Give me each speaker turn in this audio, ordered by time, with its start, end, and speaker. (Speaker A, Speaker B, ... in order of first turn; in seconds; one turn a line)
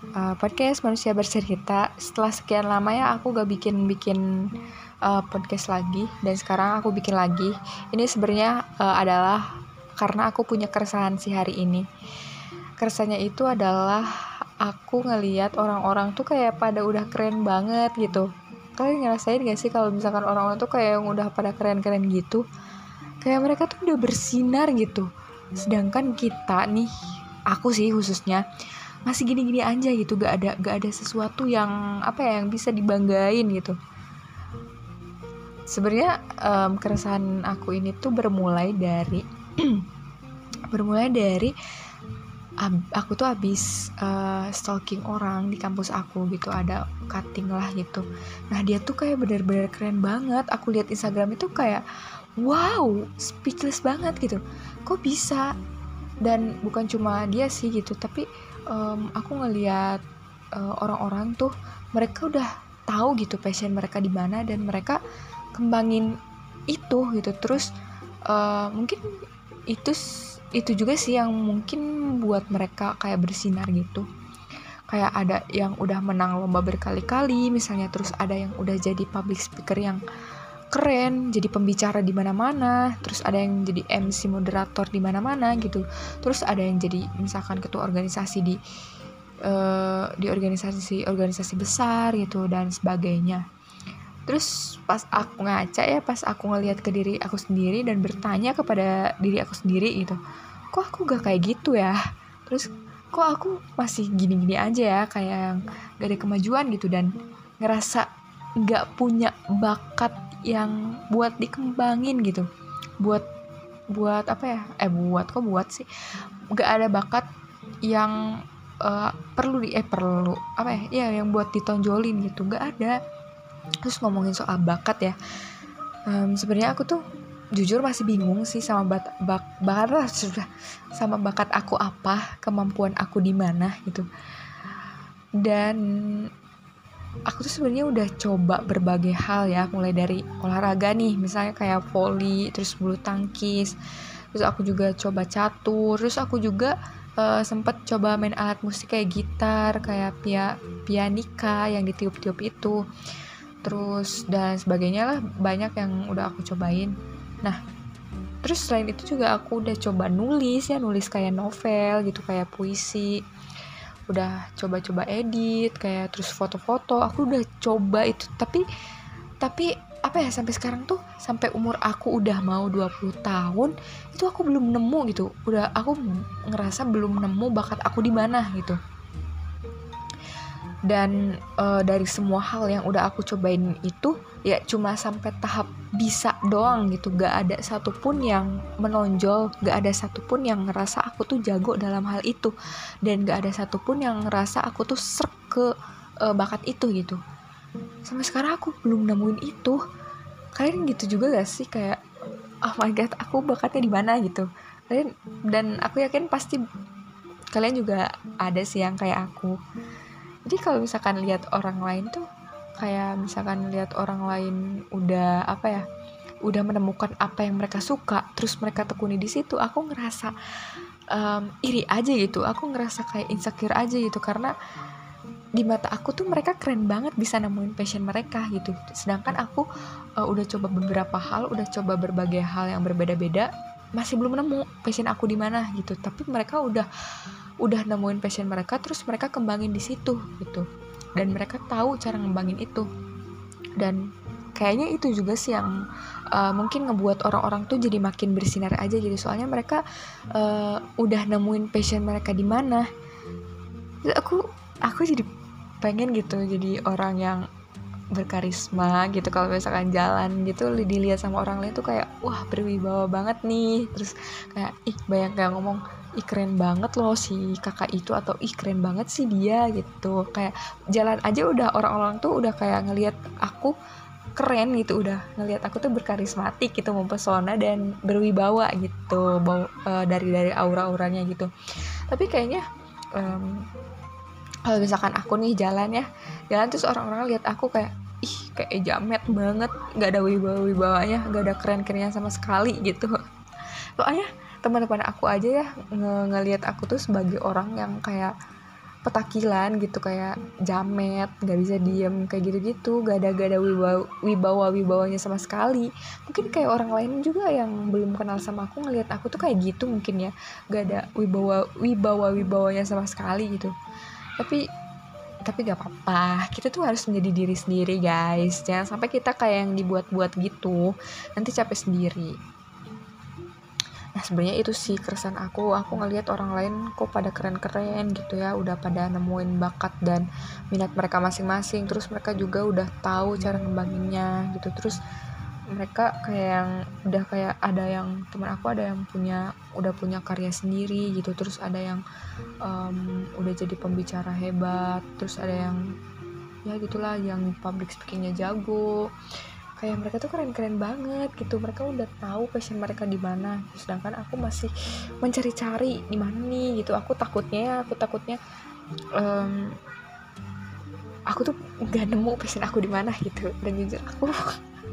Speaker A: 0.1-4.5
Speaker A: 5.0-11.9
Speaker A: 12.8-14.1
Speaker A: 14.6-22.4
Speaker A: 23.2-26.9
Speaker A: 27.5-28.4
Speaker A: 29.1-33.8
Speaker A: 35.7-39.9
Speaker A: 40.7-41.5
Speaker A: 42.6-51.8
Speaker A: 52.4-55.5
Speaker A: 56.2-60.0
Speaker A: 60.5-65.0
Speaker A: 65.5-66.1
Speaker A: 66.7-67.7
Speaker A: 68.3-69.0
Speaker A: 69.7-70.0
Speaker A: 70.5-74.1
Speaker A: 74.9-80.0
Speaker A: 80.7-88.6
Speaker A: 89.5-93.4
Speaker A: 94.3-100.2
Speaker A: 100.7-107.1
Speaker A: 107.6-108.1
Speaker A: 108.6-112.5
Speaker A: 113.9-115.9
Speaker A: 116.5-117.3
Speaker A: 117.9-118.2
Speaker A: 118.8-123.0
Speaker A: 123.8-125.2
Speaker A: 126.1-127.0
Speaker A: 127.5-134.1
Speaker A: 135.4-136.3
Speaker A: 137.3-143.8
Speaker A: 144.3-152.8
Speaker A: 153.6-157.6
Speaker A: 158.4-163.2
Speaker A: 164.1-168.6
Speaker A: 169.4-178.8
Speaker A: 180.9-195.7
Speaker A: 196.3-197.2
Speaker A: 198.1-199.8
Speaker A: 200.6-202.0
Speaker A: 202.7-206.6
Speaker A: 207.5-209.6
Speaker A: 210.4-212.2
Speaker A: 212.8-215.9
Speaker A: 216.4-220.3
Speaker A: 221.1-224.5
Speaker A: 225.6-229.7
Speaker A: 230.2-236.9
Speaker A: 237.6-240.7
Speaker A: 241.2-242.9
Speaker A: 244.6-245.8
Speaker A: 246.3-249.8
Speaker A: 250.3-252.9
Speaker A: 254.1-255.3
Speaker A: 255.8-257.4
Speaker A: 258.1-273.8
Speaker A: 274.4-281.5
Speaker A: 282.1-283.6
Speaker A: 284.7-293.1
Speaker A: 294.0-298.3
Speaker A: 299.1-313.7
Speaker A: 315.4-322.4
Speaker A: 324.1-335.0
Speaker A: 335.7-342.0
Speaker A: 342.6-345.9
Speaker A: 346.7-349.1
Speaker A: 349.8-358.4
Speaker A: 359.2-359.8
Speaker A: 361.3-364.5